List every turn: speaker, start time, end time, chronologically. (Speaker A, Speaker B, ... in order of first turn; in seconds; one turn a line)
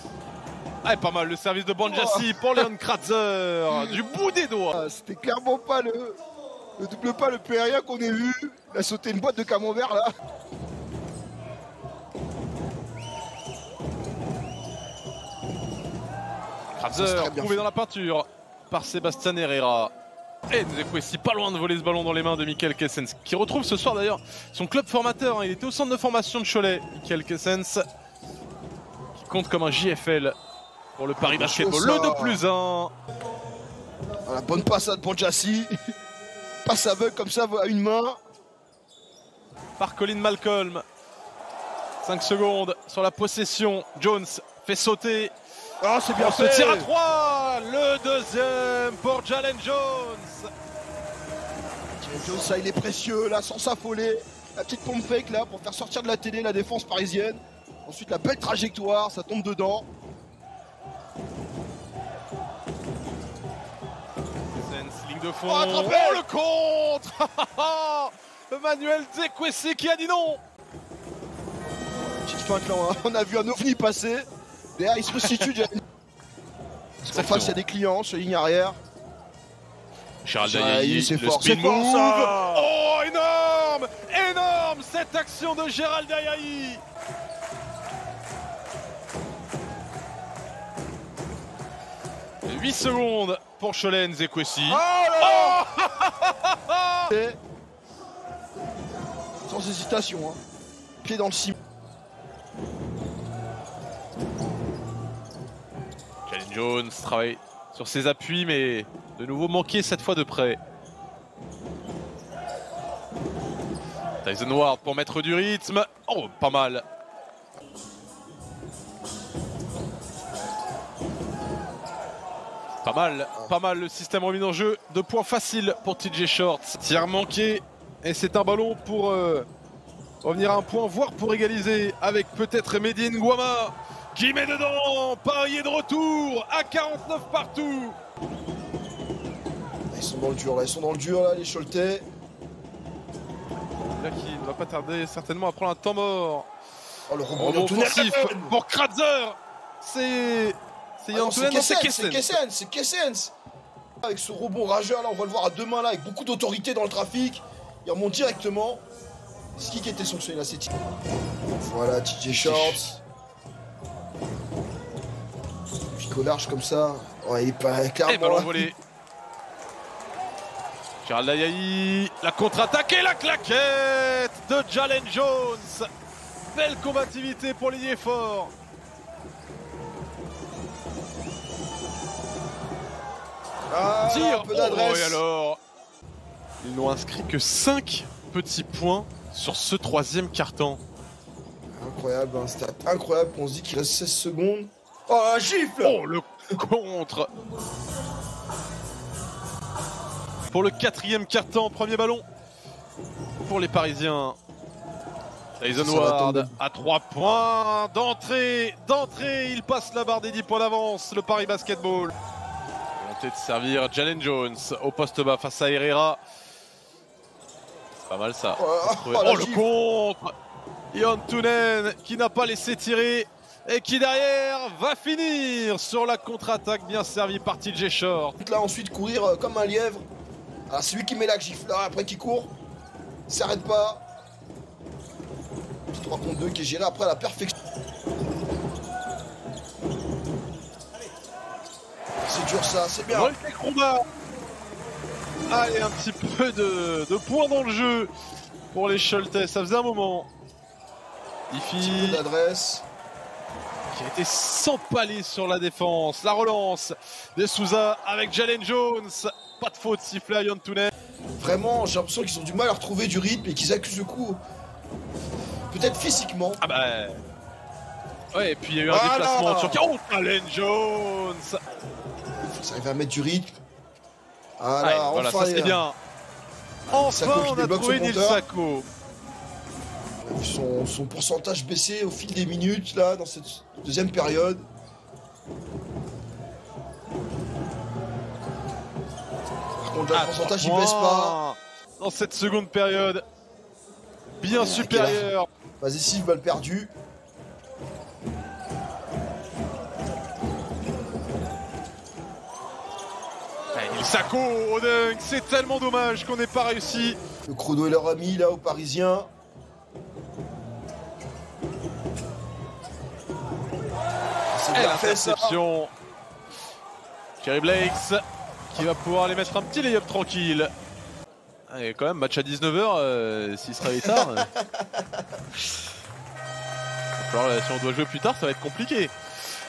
Speaker A: 0.8-4.8
Speaker B: 1.9-2.6
Speaker B: 4.7-6.2
Speaker B: 6.8-10.1
Speaker A: 16.8-19.9
Speaker B: 16.9-17.7
Speaker A: 20.5-27.9
Speaker A: 29.2-30.4
Speaker A: 31.0-32.9
Speaker B: 31.2-32.4
Speaker B: 34.3-35.7
Speaker B: 36.6-38.2
Speaker A: 39.8-40.8
Speaker A: 42.0-45.3
Speaker B: 45.8-46.9
Speaker A: 46.1-50.5
Speaker B: 52.0-59.9
Speaker A: 64.5-70.4
Speaker B: 65.5-66.2
Speaker B: 72.3-75.8
Speaker A: 75.1-75.5
Speaker A: 77.0-77.6
Speaker B: 77.1-78.8
Speaker A: 80.2-86.8
Speaker B: 80.4-82.6
Speaker A: 92.5-97.1
Speaker B: 94.7-95.6
Speaker B: 97.1-97.4
Speaker B: 99.5-100.4
Speaker B: 101.0-101.6
Speaker A: 106.3-110.6
Speaker A: 114.2-116.8
Speaker A: 122.8-129.5
Speaker A: 130.2-138.0
Speaker B: 139.9-142.1
Speaker A: 143.7-146.5
Speaker B: 147.1-148.6
Speaker A: 147.4-152.4
Speaker B: 151.1-153.3
Speaker B: 154.0-158.8
Speaker B: 159.6-160.7
Speaker B: 161.6-163.0
Speaker A: 162.3-162.9
Speaker B: 165.9-168.7
Speaker A: 168.1-168.8
Speaker A: 171.0-175.9
Speaker A: 176.5-178.5
Speaker B: 183.7-185.2
Speaker A: 184.1-185.6
Speaker A: 186.6-190.8
Speaker B: 191.8-196.0
Speaker A: 195.8-197.3
Speaker A: 200.5-202.3
Speaker A: 203.4-204.4
Speaker A: 205.6-212.1
Speaker B: 205.7-206.6
Speaker A: 212.9-216.2
Speaker A: 218.1-220.3
Speaker B: 218.6-219.7
Speaker A: 220.9-228.4
Speaker B: 228.4-230.1
Speaker B: 230.7-232.5
Speaker B: 233.3-234.0
Speaker B: 235.9-237.5
Speaker B: 242.2-243.4
Speaker A: 243.1-244.0
Speaker A: 245.5-248.1
Speaker A: 248.7-250.3
Speaker A: 251.5-252.2
Speaker B: 251.8-252.9
Speaker A: 253.9-260.9
Speaker B: 261.4-264.4
Speaker B: 265.7-266.6
Speaker A: 266.6-267.2
Speaker A: 268.3-271.6
Speaker B: 268.9-269.9
Speaker B: 272.4-273.6
Speaker B: 274.6-275.9
Speaker A: 274.8-276.0
Speaker B: 276.9-278.4
Speaker A: 276.9-278.9
Speaker B: 280.2-284.7
Speaker B: 289.8-291.4
Speaker A: 290.1-293.2
Speaker A: 294.4-295.5
Speaker B: 294.5-295.3
Speaker B: 295.8-296.9
Speaker A: 303.7-307.2
Speaker B: 307.5-309.3
Speaker B: 314.5-315.6
Speaker A: 314.7-315.9
Speaker A: 317.4-320.7
Speaker A: 321.7-324.5
Speaker B: 323.8-325.2
Speaker A: 327.2-329.2